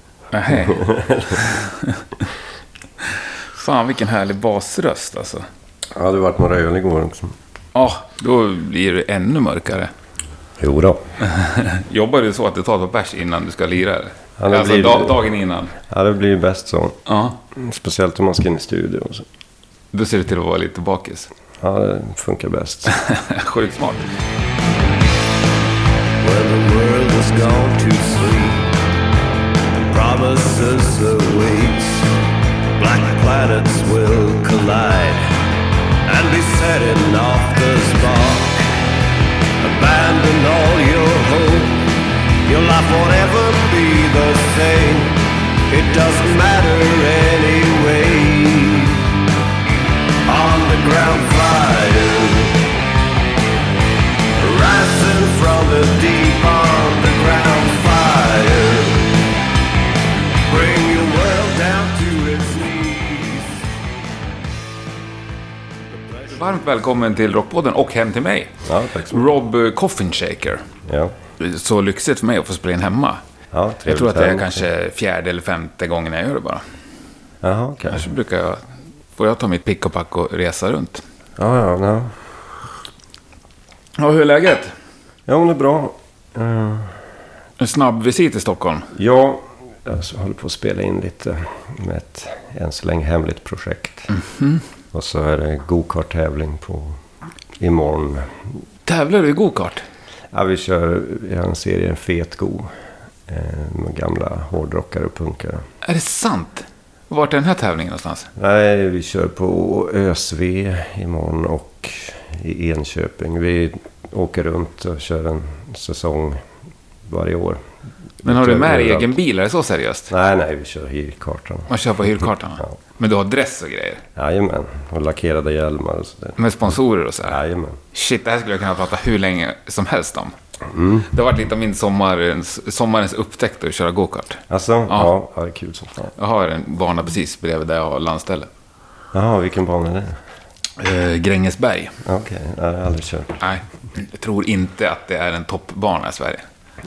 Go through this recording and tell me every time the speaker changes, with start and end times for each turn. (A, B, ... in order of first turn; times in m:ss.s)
0:00.3-0:00.8 A
0:00.5-0:01.5 B
0:01.4-0:02.0 A
0:03.0-0:05.5 A
0:05.9-0:07.3 B
0:07.7-0:09.9 A
0:10.6-0:11.0 B
0:11.2-0:15.7 A
0:14.4-0:15.2 B
0:15.9-0:17.0 B
0:17.0-0:17.4 A
0:17.5-0:19.2 B
0:19.9-0:21.3 A
0:21.6-0:22.9 B
0:22.9-0:24.0 A
0:26.2-0:28.6 C
0:29.9-0:32.0 C
0:32.8-0:35.2 C
0:36.1-0:38.5 C
0:39.7-0:41.7 C
0:42.5-0:45.0 C
0:45.7-0:48.8 C
0:50.3-0:52.4 C
0:54.4-0:59.0 C
1:00.5-1:03.4 C
1:06.3-1:10.6 A
1:08.6-1:09.3 B
1:10.8-1:11.1 B
1:11.4-1:13.2 A
1:13.5-1:14.7 B
1:13.9-1:16.6 A
1:17.4-1:18.1 B
1:17.9-1:21.0 A
1:21.4-1:22.1 B
1:24.0-1:24.7 A
1:25.3-1:27.0 B
1:27.6-1:28.9 A
1:28.9-1:34.1 B
1:34.1-1:34.6 A
1:34.9-1:37.0 B
1:37.6-1:38.4 B
1:38.8-1:39.8 A
1:40.3-1:42.7 B
1:43.3-1:45.7 B
1:45.8-1:48.3 A
1:48.4-1:56.4 B
1:57.1-1:57.6 B
1:58.2-1:59.1 B
1:58.2-2:00.1 A
2:00.1-2:01.7 B
2:01.7-2:04.0 A
2:04.1-2:06.4 B
2:06.4-2:07.4 A
2:07.2-2:07.8 B
2:07.9-2:10.4 A
2:10.7-2:11.1 B
2:11.1-2:15.1 A
2:14.5-2:16.1 B
2:16.2-2:18.5 A
2:19.1-2:20.2 B
2:20.8-2:22.0 A
2:22.0-2:23.4 B
2:23.4-2:26.4 A